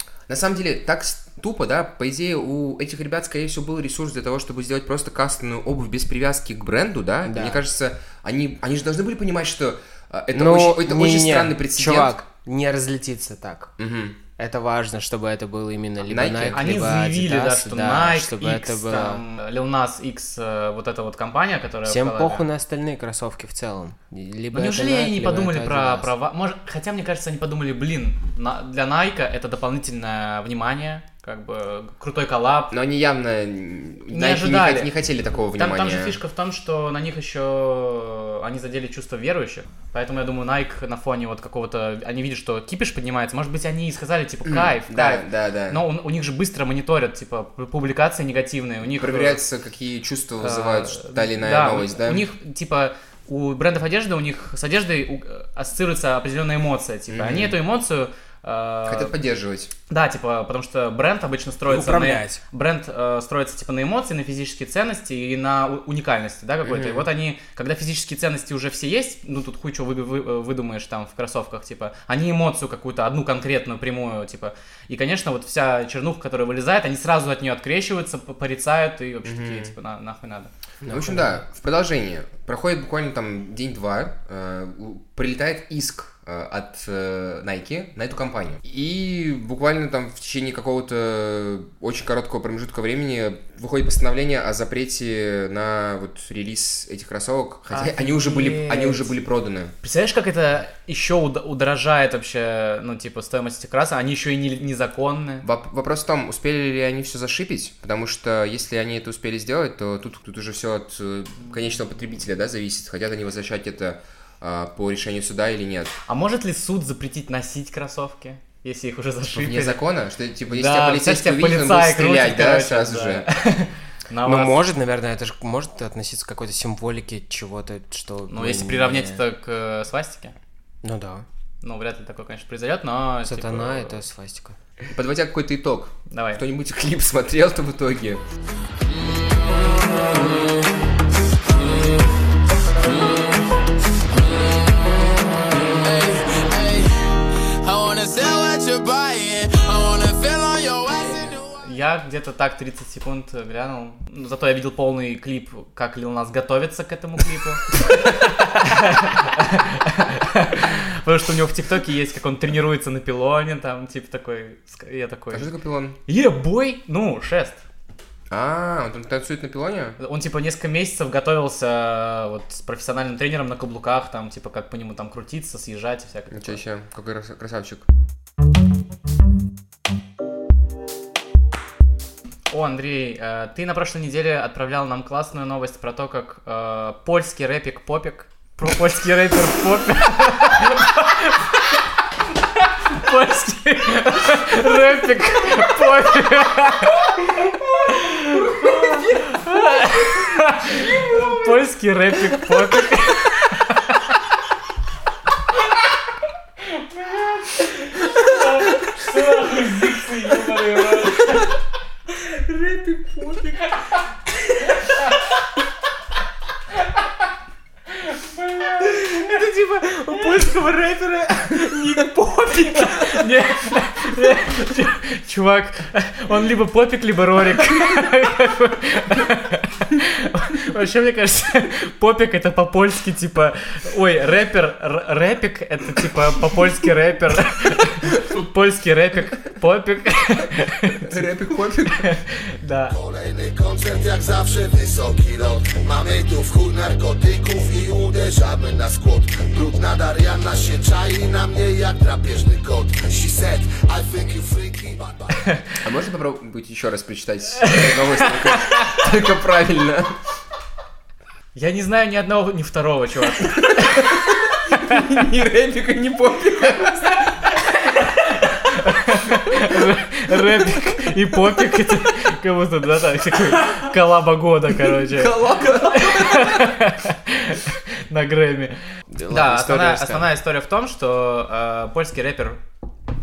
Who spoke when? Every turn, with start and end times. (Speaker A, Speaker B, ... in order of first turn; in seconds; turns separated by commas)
Speaker A: 0.3-12.2, Speaker B: 7.2-7.6, Speaker B: 10.3-13.7, Speaker A: 13.8-14.2, Speaker B: 14.4-19.2, Speaker A: 16.0-16.9, Speaker C: 16.5-22.4, Speaker B: 21.9-26.1, Speaker C: 24.5-32.7, Speaker A: 32.7-36.2, Speaker C: 34.1-34.9, Speaker C: 35.6-49.4, Speaker A: 44.5-45.8, Speaker A: 49.0-52.3, Speaker C: 50.4-59.1, Speaker A: 57.1-57.6, Speaker A: 58.9-59.7, Speaker C: 59.9-80.5, Speaker B: 61.7-62.4, Speaker A: 66.6-67.1, Speaker A: 79.2-79.8, Speaker B: 80.8-81.4, Speaker A: 80.9-99.8, Speaker C: 97.7-99.1, Speaker C: 99.8-105.5, Speaker A: 105.4-115.9, Speaker C: 116.1-119.8, Speaker A: 119.3-123.3, Speaker C: 120.5-124.6, Speaker B: 124.2-129.2, Speaker C: 128.3-130.3, Speaker B: 130.8-131.2, Speaker C: 131.6-134.0, Speaker B: 133.2-134.6, Speaker A: 134.9-138.2, Speaker C: 136.1-136.4, Speaker D: 145.8-146.9, Speaker D: 147.6-151.4, Speaker C: 151.2-165.5, Speaker A: 165.3-166.0, Speaker C: 166.1-167.6, Speaker A: 168.3-170.0, Speaker C: 170.0-176.6, Speaker A: 176.3-177.9, Speaker C: 182.5-191.8, Speaker C: 192.6-204.0, Speaker C: 207.0-211.4, Speaker B: 212.8-213.6, Speaker C: 218.3-241.2, Speaker B: 218.9-223.2, Speaker A: 241.0-242.1, Speaker C: 241.9-243.0, Speaker E: 242.9-255.5, Speaker A: 255.8-260.2, Speaker C: 257.6-258.9, Speaker C: 261.6-265.0, Speaker A: 263.7-267.3, Speaker C: 267.9-282.6, Speaker A: 275.0-276.8, Speaker B: 279.1-280.3